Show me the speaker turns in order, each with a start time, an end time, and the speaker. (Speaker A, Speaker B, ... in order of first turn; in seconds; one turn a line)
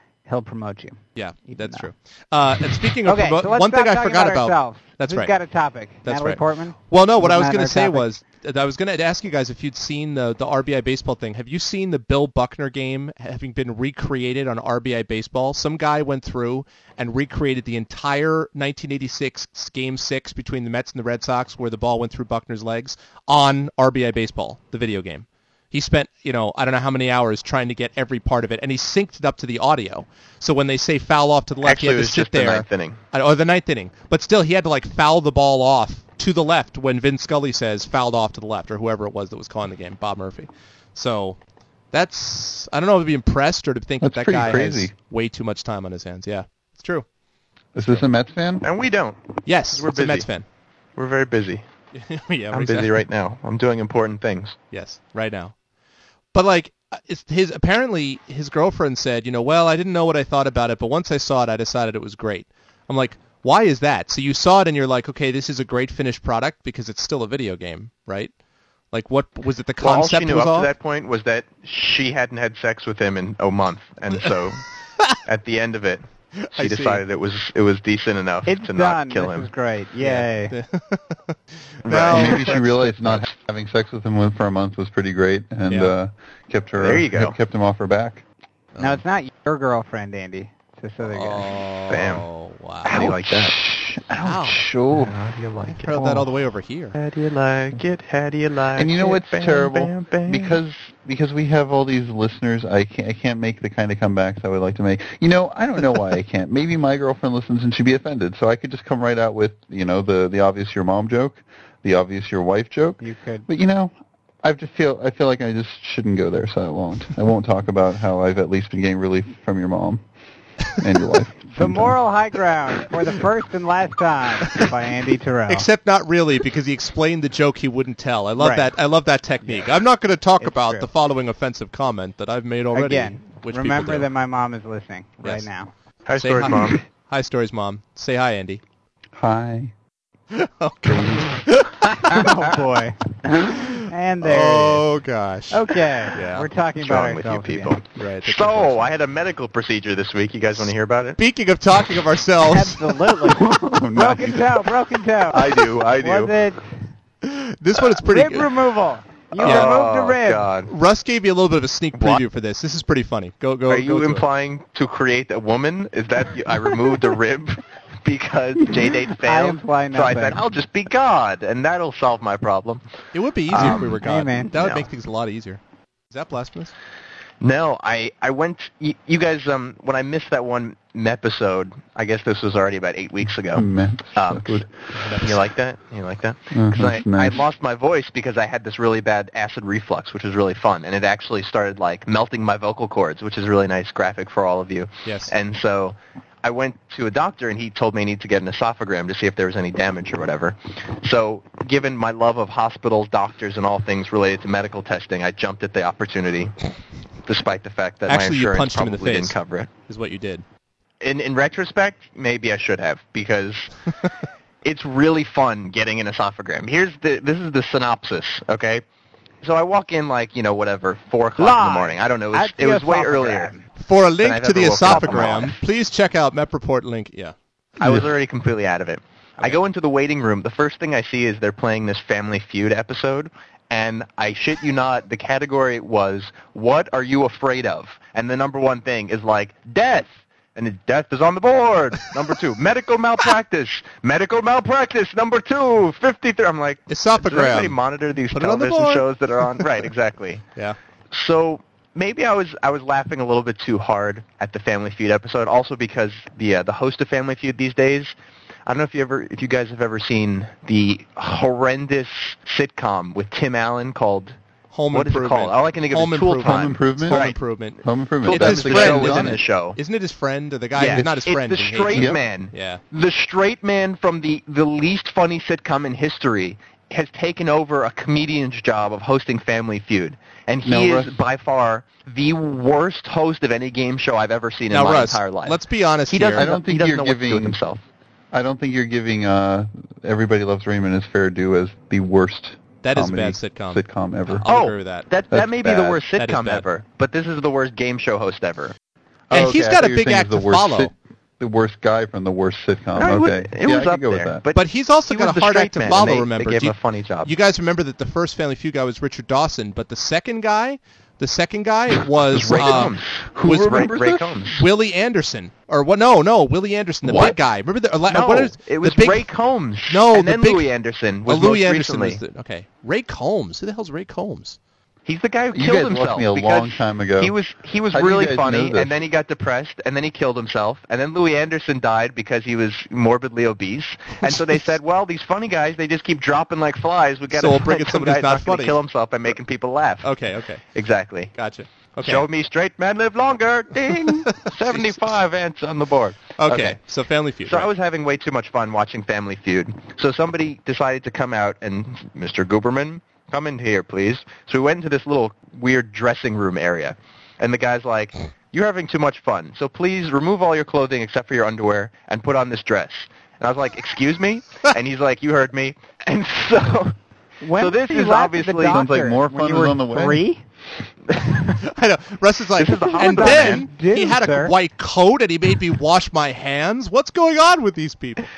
Speaker A: 0.2-1.9
Speaker B: 1.1-5.3
Speaker A: 3.0-8.1
Speaker B: 6.0-41.4
Speaker C: 31.6-33.0
Speaker B: 41.9-47.0
Speaker D: 44.0-44.9
Speaker D: 47.7-48.6
Speaker C: 48.6-49.2
Speaker B: 49.5-50.4
Speaker C: 49.7-50.3
Speaker C: 51.0-51.6
Speaker B: 51.9-53.0
Speaker C: 52.5-54.5
Speaker B: 54.7-55.5
Speaker B: 56.3-68.3
Speaker B: 68.9-70.7
Speaker C: 69.8-74.6
Speaker C: 75.2-79.5
Speaker B: 76.4-77.0
Speaker A: 78.5-80.5
Speaker B: 80.0-82.6
Speaker C: 81.8-83.3
Speaker D: 81.9-88.2
Speaker B: 85.7-85.9
Speaker C: 86.8-87.3
Speaker B: 88.8-89.0
Speaker A: 88.8-91.5
Speaker B: 91.0-93.1
Speaker C: 91.9-92.2
Speaker C: 92.8-93.6
Speaker D: 92.8-95.1
Speaker B: 94.2-94.6
Speaker C: 94.9-96.3
Speaker B: 95.8-97.0
Speaker C: 96.9-100.6
Speaker D: 98.8-120.0
Speaker A: 113.0-113.5
Speaker D: 120.7-122.0
Speaker A: 121.5-125.7
Speaker B: 125.5-134.1
Speaker A: 128.4-128.7
Speaker A: 129.4-129.7
Speaker A: 130.4-130.9
Speaker A: 132.7-135.7
Speaker C: 136.1-136.8
Speaker B: 136.2-138.6
Speaker D: 139.1-139.7
Speaker B: 140.3-142.2
Speaker D: 140.9-141.3
Speaker A: 141.9-144.8
Speaker B: 143.4-146.5
Speaker A: 145.5-147.8
Speaker C: 146.8-151.2
Speaker B: 148.0-148.9
Speaker B: 151.2-153.1
Speaker A: 152.4-156.6
Speaker D: 153.2-154.7
Speaker D: 155.3-156.3
Speaker B: 157.2-158.5
Speaker A: 158.0-160.5
Speaker C: 159.3-160.7
Speaker B: 159.4-159.7
Speaker B: 160.7-164.2
Speaker C: 161.9-162.2
Speaker C: 163.7-172.8
Speaker A: 169.2-170.4
Speaker B: 173.1-175.6
Speaker C: 173.5-173.9
Speaker A: 173.6-174.5
Speaker C: 174.5-174.9
Speaker B: 176.1-176.7
Speaker C: 177.4-184.6
Speaker D: 183.5-184.7
Speaker B: 184.9-185.4
Speaker C: 185.2-206.6
Speaker D: 186.5-187.4
Speaker B: 195.0-195.3
Speaker C: 207.2-209.7
Speaker B: 208.1-210.4
Speaker C: 211.0-213.7
Speaker C: 214.6-218.8
Speaker C: 219.4-223.5
Speaker A: 221.4-223.6
Speaker B: 223.8-227.3
Speaker C: 224.2-225.6
Speaker A: 224.8-225.4
Speaker C: 227.8-250.4
Speaker D: 227.8-228.1
Speaker B: 246.9-247.8
Speaker B: 248.3-249.7
Speaker C: 251.1-258.1
Speaker C: 258.6-264.4
Speaker B: 264.7-272.8
Speaker C: 264.9-267.4
Speaker D: 266.4-267.3
Speaker D: 267.8-269.4
Speaker C: 268.2-269.8
Speaker C: 270.8-287.8
Speaker D: 271.9-272.2
Speaker D: 280.6-281.1
Speaker B: 284.7-286.5
Speaker D: 286.3-287.6
Speaker D: 288.3-294.5
Speaker B: 292.8-295.1
Speaker C: 294.4-298.7
Speaker D: 295.3-296.0
Speaker B: 296.1-296.6
Speaker D: 299.3-304.4
Speaker B: 299.3-300.9
Speaker C: 302.9-307.3
Speaker B: 304.5-313.9
Speaker C: 312.3-314.6
Speaker D: 313.4-314.3
Speaker B: 314.5-319.3
Speaker C: 317.0-317.4
Speaker C: 318.1-322.2
Speaker B: 319.9-320.7
Speaker B: 321.2-324.6
Speaker C: 325.1-340.1
Speaker D: 325.5-327.3
Speaker D: 327.9-328.9
Speaker B: 337.3-338.8
Speaker B: 340.0-340.6
Speaker C: 340.7-341.3
Speaker B: 341.3-342.2
Speaker C: 342.0-346.8
Speaker B: 343.9-345.0
Speaker B: 346.4-347.7
Speaker C: 347.5-366.9
Speaker A: 367.4-370.4
Speaker C: 367.5-368.8
Speaker D: 368.6-370.2
Speaker C: 371.1-371.5
Speaker B: 371.6-378.2
Speaker C: 372.6-373.7
Speaker A: 373.0-374.5